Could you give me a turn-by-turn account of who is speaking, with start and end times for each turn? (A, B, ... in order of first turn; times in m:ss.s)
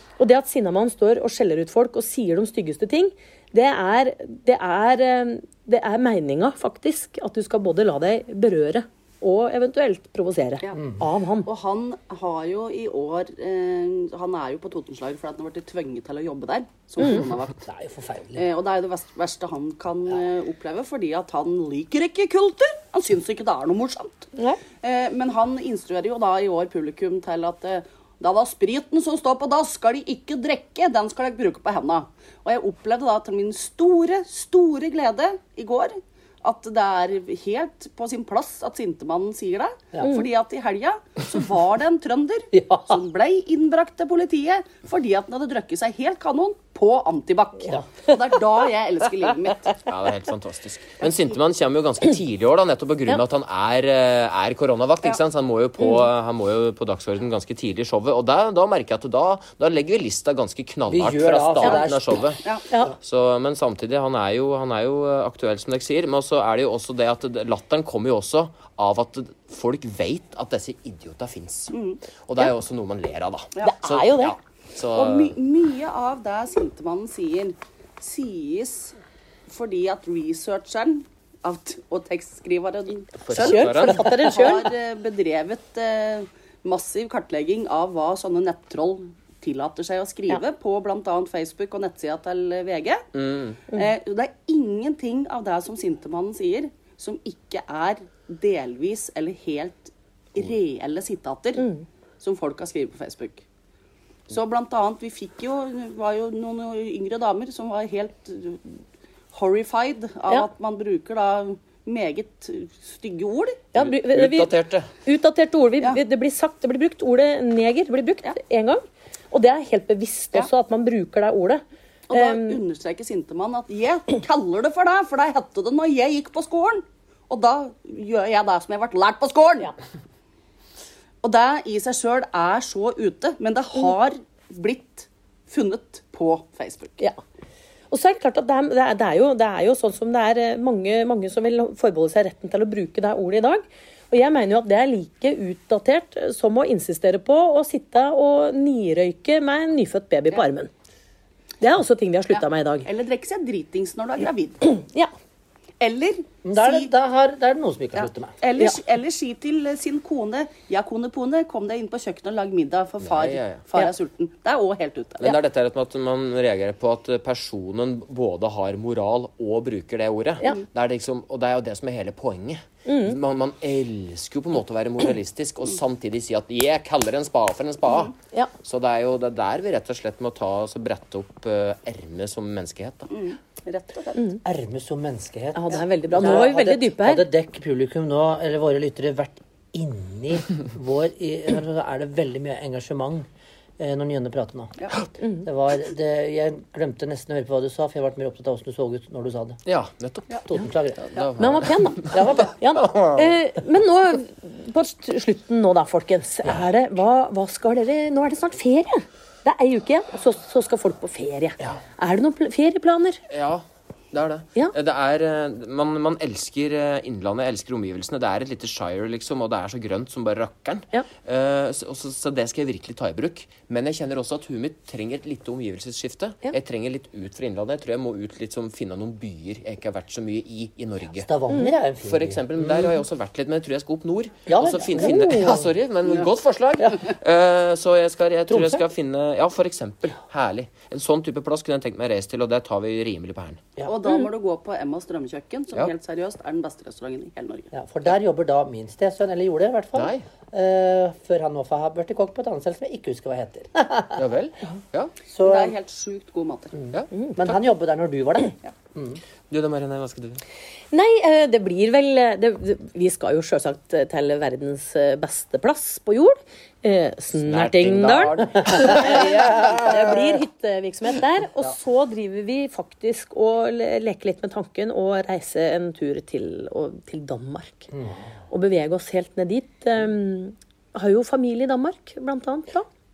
0:00.2-0:11.5 A
0:11.4-0:17.6 B
0:17.6-0:18.4 C
0:18.4-0:49.8 B
0:24.4-0:24.6 A
0:42.5-0:43.0 C
0:49.8-1:02.4 D
0:51.0-0:51.4 B
1:00.9-1:02.4 C
1:03.0-1:15.4 D
1:11.7-1:12.0 B
1:13.6-1:14.4 A
1:14.9-1:19.0 B
1:19.5-1:33.1 B
1:23.2-1:24.1 D
1:23.4-1:24.7 A
1:33.1-1:33.6 D
1:33.7-1:41.7 B
1:41.6-1:41.8 A
1:42.2-1:43.4 B
1:44.3-1:48.8 B
1:49.3-1:53.6 B
1:53.7-2:02.6 A
1:53.8-1:54.9 D
2:02.1-2:09.7 B
2:11.2-2:17.0 B
2:17.9-2:30.7 A
2:31.6-2:32.9 A
2:32.3-2:34.6 B
2:34.7-2:35.1 A
2:35.8-2:36.9 B
2:36.4-2:38.3 C
2:38.0-2:45.2 B
2:43.0-2:43.6 D
2:45.2-3:03.1 D
2:52.8-2:53.2 A
3:03.1-3:04.3 B
3:04.4-3:13.3 C
3:05.6-3:07.3 A
3:05.7-3:06.5 B
3:13.8-3:14.9 C
3:15.2-3:15.4 A
3:15.4-3:19.6 C
3:19.7-3:20.4 D
3:20.5-3:21.3 C
3:21.0-3:22.2 D
3:21.4-3:33.2 A
3:22.1-3:22.6 C
3:22.8-3:23.3 D
3:33.3-3:51.3 D
3:51.2-3:53.0 C
3:52.0-4:03.6 D
3:54.5-3:55.7 C
3:55.0-3:55.6 A
3:58.5-3:58.8 C
4:03.9-4:07.7 B
4:07.7-4:14.2 C
4:10.0-4:10.2 D
4:14.2-4:15.1 D
4:15.3-4:15.8 C
4:15.4-4:16.8 B
4:16.8-4:19.2 C
4:16.9-4:17.5 D
4:19.5-4:20.4 D
4:20.9-4:37.9 A
4:27.4-4:30.0 D
4:28.4-4:30.4 C
4:38.5-4:42.9 A